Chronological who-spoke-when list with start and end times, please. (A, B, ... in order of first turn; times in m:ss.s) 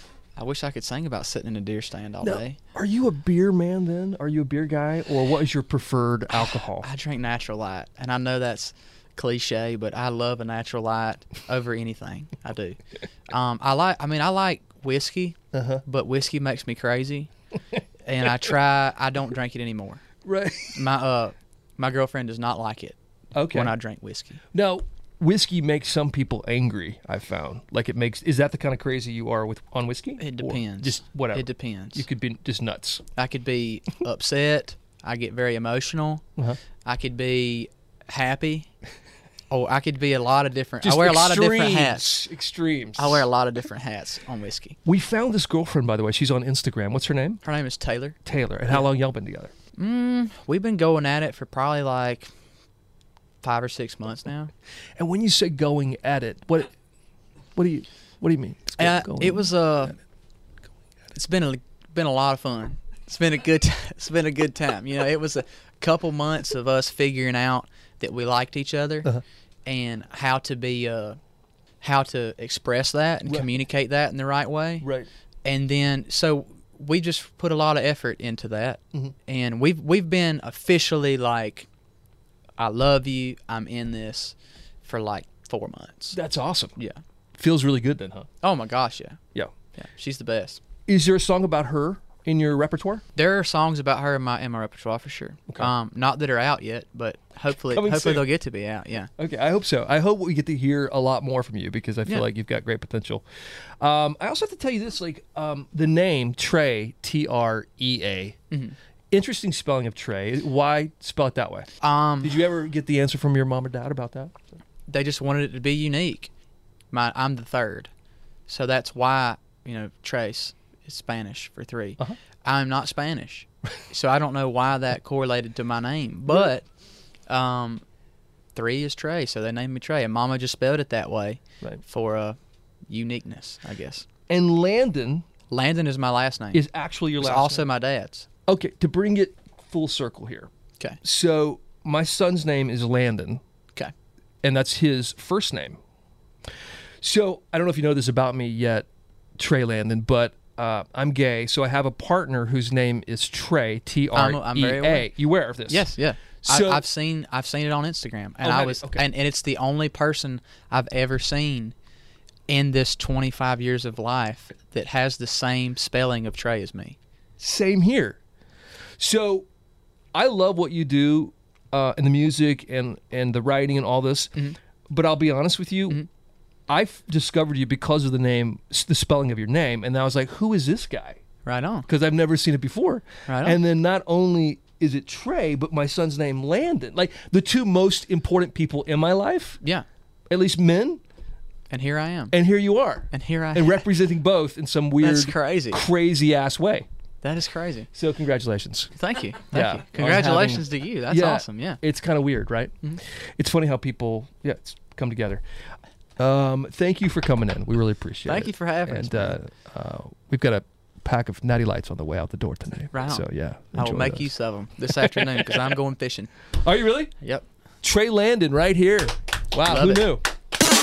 0:00.3-0:02.6 A
0:02.2-0:06.9 B
0:06.3-0:17.3 A
0:15.5-0:15.8 B
0:18.0-0:20.0 A
0:20.2-0:20.8 B
0:20.7-0:23.0 A
0:23.3-0:23.7 B
0:23.5-0:24.4 A
0:24.5-0:33.0 B
0:30.2-0:32.0 A
0:33.1-0:36.2 A
0:36.8-0:38.7 A
0:39.5-0:42.2 A
0:40.8-0:43.3 B
0:43.0-0:44.8 A
0:44.8-0:47.4 B
0:47.4-0:48.8 A
0:48.2-0:49.5 B
0:49.8-0:52.3 A
0:53.4-0:54.5 A
0:55.0-0:56.7 B
0:57.6-0:59.9 B
0:58.8-1:00.0 A
1:01.1-1:11.2 A
1:11.8-1:14.9 A
1:14.8-1:15.1 B
1:15.4-1:21.7 A
1:22.6-1:26.2 A
1:26.1-1:26.7 B
1:27.4-1:28.3 B
1:28.4-1:29.2 A
1:29.7-1:30.6 A
1:30.9-1:33.0 B
1:33.1-1:39.1 A
1:37.7-1:38.2 B
1:39.2-1:43.2 B
1:43.8-1:48.4 B
1:49.1-1:51.7 B
1:51.8-1:52.4 A
1:52.2-1:54.3 B
1:54.9-1:56.3 A
1:56.9-1:57.9 A
1:58.5-2:06.6 A
2:07.3-2:07.8 A
2:08.5-2:12.4 A
2:12.9-2:14.0 A
2:14.3-2:15.2 B
2:15.5-2:16.6 A
2:16.5-2:17.6 B
2:17.2-2:18.2 A
2:18.5-2:20.5 B
2:21.0-2:23.4 B
2:24.4-2:25.8 B
2:27.0-2:28.8 B
2:29.4-2:35.9 B
2:34.1-2:35.1 A
2:35.6-2:41.7 A
2:36.4-2:36.8 B
2:38.4-2:39.0 B
2:42.5-2:47.0 A
2:47.4-2:48.2 B
2:49.0-2:49.4 B
2:50.1-2:54.3 B
2:54.9-2:56.0 B
2:56.7-3:01.2 B
3:01.4-3:01.9 A
3:01.9-3:09.6 B
3:03.3-3:03.6 A
3:10.3-3:11.0 B
3:11.7-3:12.3 A
3:12.3-3:16.8 B
3:13.1-3:13.8 A
3:15.0-3:15.8 A
3:17.2-3:17.9 A
3:17.9-3:18.9 B
3:18.9-3:21.8 A
3:19.5-3:25.4 B
3:26.2-3:34.3 B
3:28.2-3:29.4 A
3:32.9-3:36.3 A
3:34.9-3:35.7 B
3:36.6-3:37.1 B
3:37.8-3:40.2 B
3:39.6-3:40.1 A